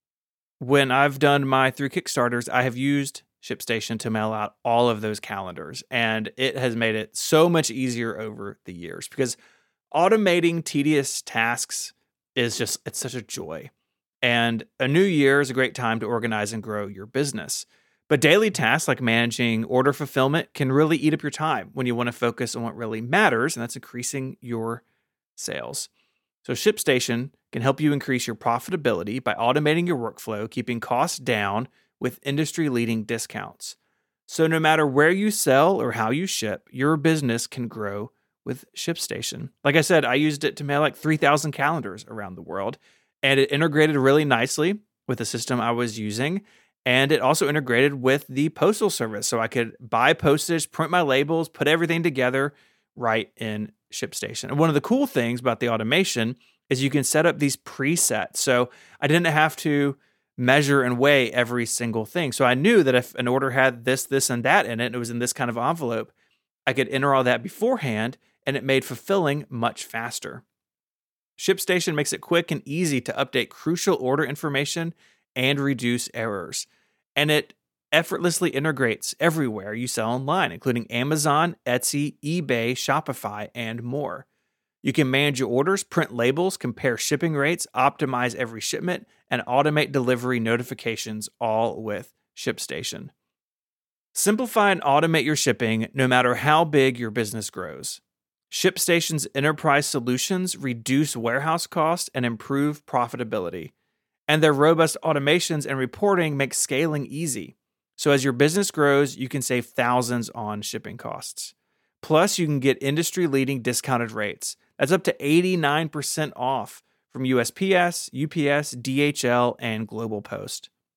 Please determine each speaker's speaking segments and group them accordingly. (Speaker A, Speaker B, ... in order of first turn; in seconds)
Speaker A: 0.6-9.4, 9.9-13.7, 14.2-24.8, 25.4-25.9, 26.4-33.8, 34.3-66.1, 66.7-70.4, 71.4-84.3, 84.8-93.1, 94.1-98.0, 98.5-103.7, 104.3-120.7